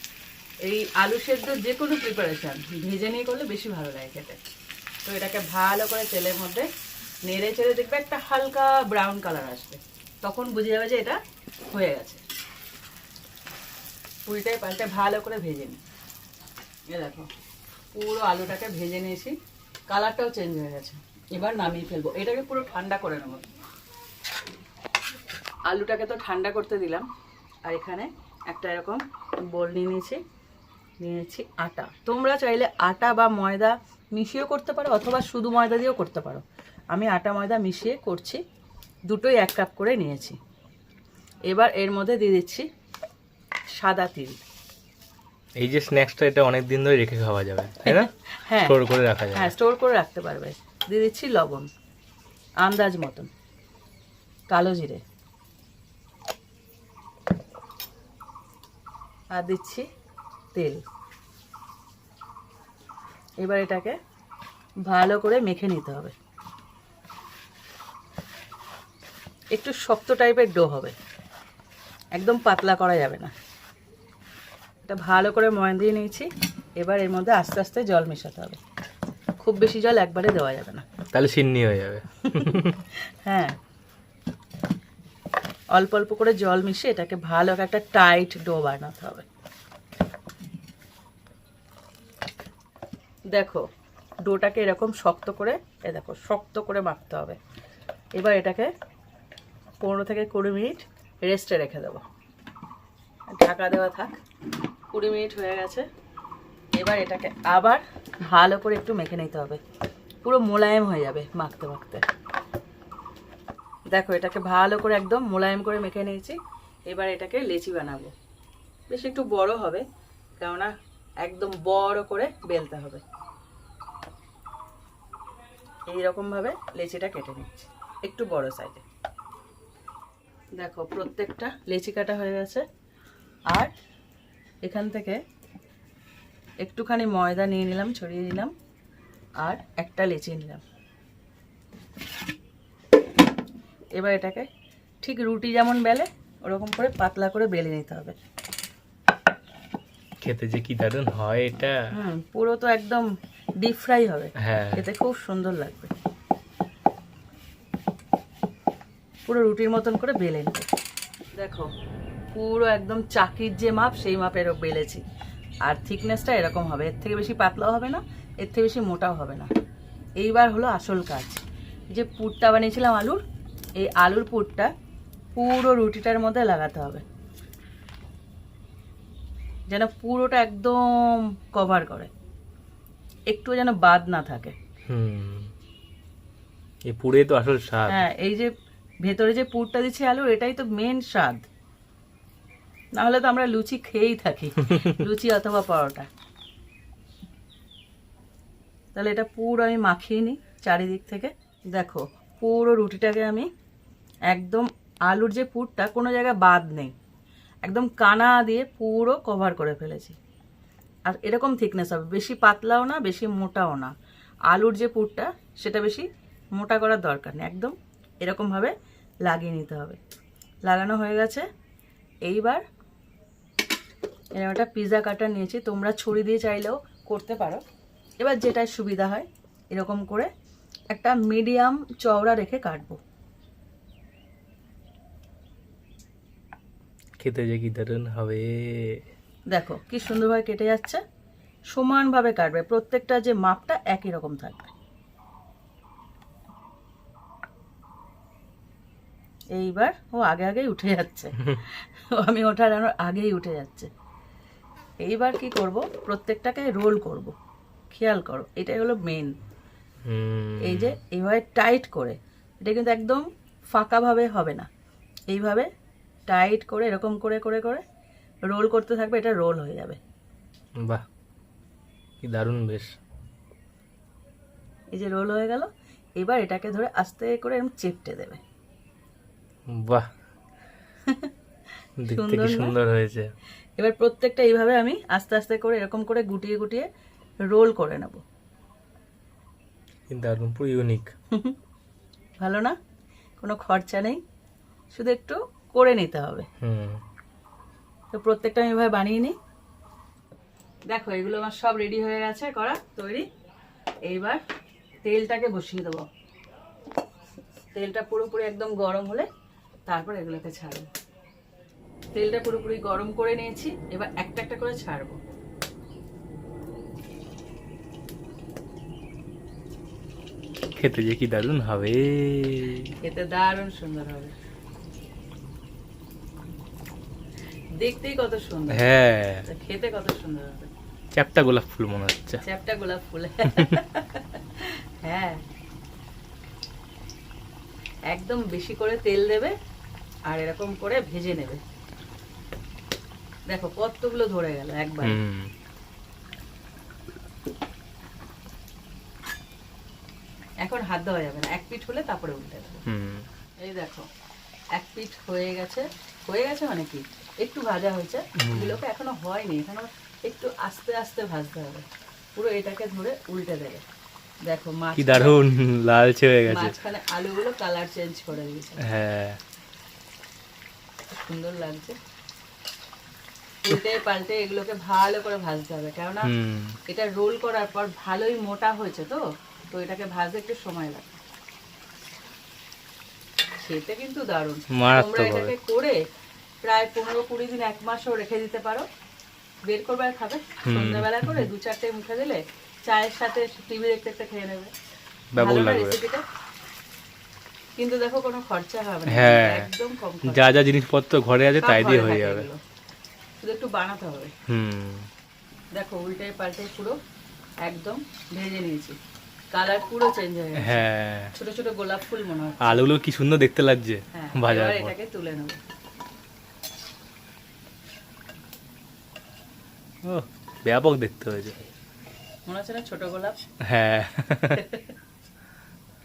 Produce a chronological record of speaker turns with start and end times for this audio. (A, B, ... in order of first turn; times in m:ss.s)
0:00.6-0:04.4 A
0:05.0-0:06.7 A
0:07.3-0:12.2 A
0:14.2-0:15.8 A
0:16.9-0:17.3 A
0:17.9-0:19.4 A
0:19.9-0:23.4 A
0:25.6-0:27.1 A
0:27.6-0:30.2 A
0:31.0-0:38.4 A
0:39.1-0:40.4 A
0:41.5-0:42.7 A
0:43.8-0:44.4 A
0:45.6-0:48.1 B
0:47.8-0:48.8 A
0:48.6-0:49.5 B
0:49.3-0:51.7 A
0:52.6-0:53.3 A
0:54.5-0:55.0 A
0:59.3-0:59.8 A
1:00.5-1:00.8 A
1:03.4-1:04.0 A
1:04.8-1:06.1 A
1:09.5-1:10.9 A
1:12.2-1:13.3 A
1:14.8-1:18.6 A
1:19.4-1:20.8 A
1:21.1-1:22.8 B
1:22.9-1:23.6 A
1:25.7-1:29.2 A
1:33.3-1:33.7 A
1:34.2-1:37.4 A
1:38.1-1:38.7 A
1:39.8-1:42.0 A
1:43.3-1:44.2 A
1:44.9-1:45.9 A
1:46.8-1:49.6 A
1:50.2-1:52.1 A
1:53.9-1:58.1 A
1:58.9-1:59.8 A
2:00.4-2:03.0 A
2:05.9-2:08.8 A
2:10.6-2:12.6 A
2:14.6-2:15.2 A
2:16.6-2:18.5 A
2:19.4-2:20.6 A
2:24.0-2:24.5 A
2:25.0-2:28.1 A
2:30.2-2:31.8 B
2:31.9-2:33.0 A
2:33.6-2:35.9 A
2:34.4-2:34.8 B
2:39.3-2:40.7 A
2:41.4-2:41.7 A
2:42.3-2:45.0 A
2:45.6-2:49.5 A
2:50.2-2:53.2 A
2:53.8-2:54.7 A
2:55.4-2:57.0 A
2:59.7-3:02.1 A
3:03.3-3:04.6 A
3:04.9-3:05.5 B
3:06.9-3:08.1 B
3:07.9-3:08.5 A
3:09.0-3:11.4 A
3:13.0-3:16.1 A
3:18.9-3:23.5 A
3:24.3-3:26.9 A
3:27.6-3:30.2 A
3:31.1-3:33.9 A
3:34.5-3:38.7 A
3:39.2-3:40.0 A
3:40.7-3:41.4 A
3:42.2-3:42.6 A
3:44.4-3:47.6 A
3:48.2-3:50.3 A
3:50.9-3:53.0 A
3:57.2-3:59.0 B
3:59.5-4:01.0 A
4:01.7-4:04.7 A
4:09.5-4:13.9 A
4:15.0-4:17.3 A
4:17.9-4:19.3 A
4:20.1-4:21.0 B
4:20.6-4:24.7 A
4:25.3-4:25.7 A
4:26.3-4:27.8 A
4:28.4-4:30.0 A
4:32.2-4:32.9 B
4:34.9-4:38.4 A
4:39.7-4:40.1 B
4:41.1-4:41.3 A
4:42.0-4:43.3 B
4:42.1-4:42.7 A
4:43.8-4:46.9 A
4:47.5-4:48.2 A
4:50.1-4:51.1 B
4:52.4-4:52.7 A
4:53.4-4:54.2 A
4:54.9-4:56.4 A
4:56.6-4:57.0 B
4:58.1-4:59.4 A
5:00.9-5:03.2 A
5:04.1-5:04.4 A
5:05.0-5:06.1 A
5:07.7-5:09.3 A
5:09.9-5:10.9 A
5:12.1-5:15.2 A
5:20.8-5:22.9 B
5:23.0-5:24.3 A
5:27.8-5:28.9 A
5:28.7-5:29.4 B
5:29.4-5:30.7 A
5:31.1-5:32.4 B
5:32.4-5:35.4 A
5:38.1-5:39.5 A
5:40.3-5:41.6 A
5:43.5-5:45.2 A
5:45.0-5:45.5 B
5:50.6-5:52.8 A
5:52.9-5:53.2 B
5:53.6-5:54.1 A
5:54.7-6:03.8 A
5:58.4-5:58.8 B
6:04.4-6:05.4 A
6:05.0-6:06.8 B
6:06.5-6:08.8 A
6:08.8-6:09.4 B
6:11.1-6:12.0 A
6:13.6-6:16.3 A
6:16.2-6:16.8 B
6:16.9-6:21.2 A
6:23.6-6:26.0 A
6:24.7-6:25.6 B
6:26.6-6:28.9 A
6:29.7-6:34.7 A
6:30.6-6:31.5 B
6:35.3-6:36.0 B
6:35.4-6:36.2 A
6:37.8-6:40.5 A
6:39.1-6:39.7 B
6:40.2-6:42.5 B
6:41.6-6:42.6 A
6:43.4-6:44.3 A
6:44.5-6:45.1 B
6:45.7-6:47.0 A
6:47.6-6:49.0 A
6:49.5-6:50.8 A
6:50.6-6:51.3 B
6:51.3-6:52.8 A
6:52.6-6:54.9 B
6:54.1-6:55.6 A
7:00.0-7:01.6 B
7:02.5-7:03.4 A
7:03.7-7:04.7 B
7:04.5-7:04.9 A